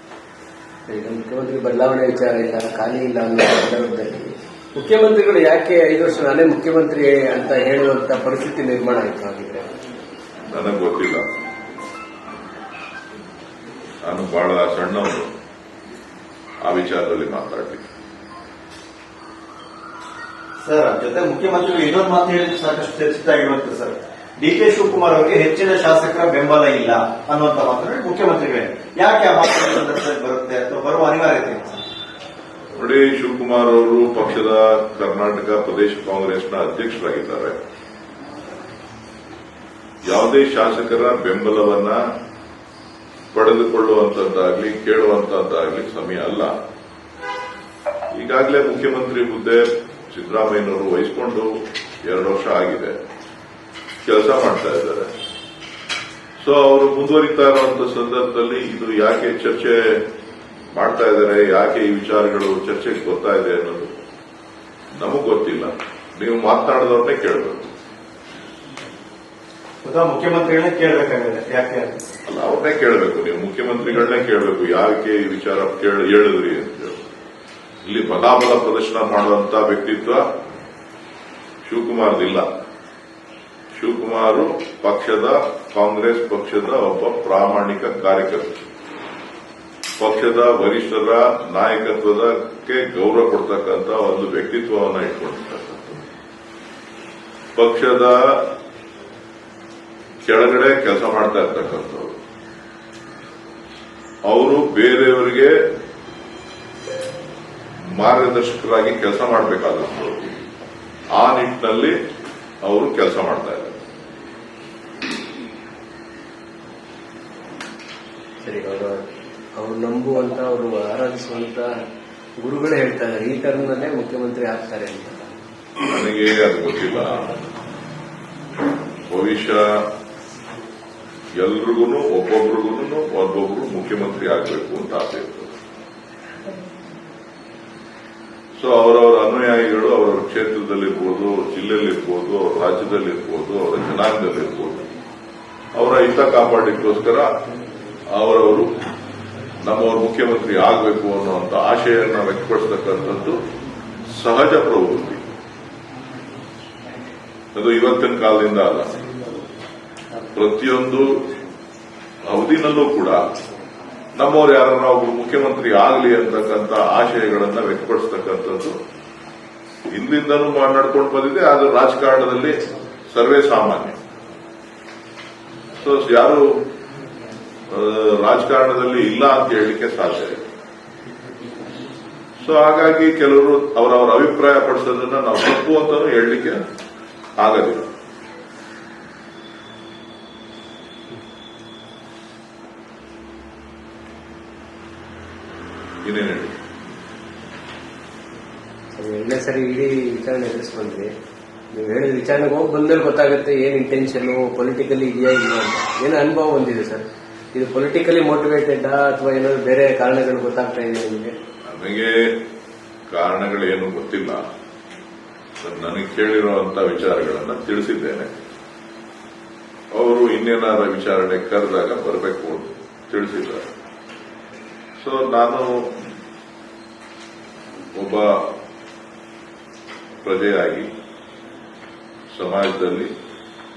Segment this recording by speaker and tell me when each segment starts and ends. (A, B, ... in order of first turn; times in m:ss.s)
0:00.9-0:09.7 A
0:10.5-0:11.2 B
0:14.0-0:15.3 B
0:16.6-0:17.9 B
0:20.6-0:31.8 C
0:32.8-0:37.6 B
0:40.1-0:42.0 B
0:43.3-0:46.5 B
0:48.1-0:51.5 B
0:52.0-0:53.0 B
0:54.0-0:55.1 B
0:56.4-1:00.0 B
1:00.7-1:03.9 B
1:04.9-1:07.7 B
1:09.8-1:12.0 C
1:12.3-1:17.0 B
1:17.8-1:20.2 B
1:21.7-1:22.5 B
1:23.8-1:28.6 B
1:30.0-1:36.0 B
1:37.6-1:38.4 B
1:40.2-1:42.2 B
1:44.3-1:45.6 B
1:47.8-1:50.4 B
1:51.2-1:52.0 B
1:52.6-1:53.8 B
1:58.4-2:01.7 A
2:02.4-2:05.3 A
2:05.9-2:07.3 B
2:09.1-2:09.8 B
2:11.4-2:15.5 B
2:18.6-2:24.9 B
2:25.8-2:27.3 B
2:28.1-2:28.7 B
2:29.6-2:33.4 B
2:34.1-2:35.2 B
2:37.6-2:39.0 B
2:40.3-2:41.1 B
2:42.3-2:43.2 B
2:44.2-2:48.8 B
2:49.9-2:52.6 B
2:53.1-2:54.0 B
2:55.8-2:56.4 B
2:57.7-3:00.4 B
3:02.4-3:06.6 B
3:07.4-3:07.8 B
3:16.0-3:16.6 B
3:18.9-3:21.1 A
3:21.7-3:31.3 A
3:31.7-3:32.3 B
3:33.1-3:34.4 B
3:35.6-3:38.3 B
3:39.9-3:43.6 B
3:45.0-3:45.9 B
3:48.0-3:48.4 B
3:50.2-3:50.9 B
3:52.3-3:53.1 B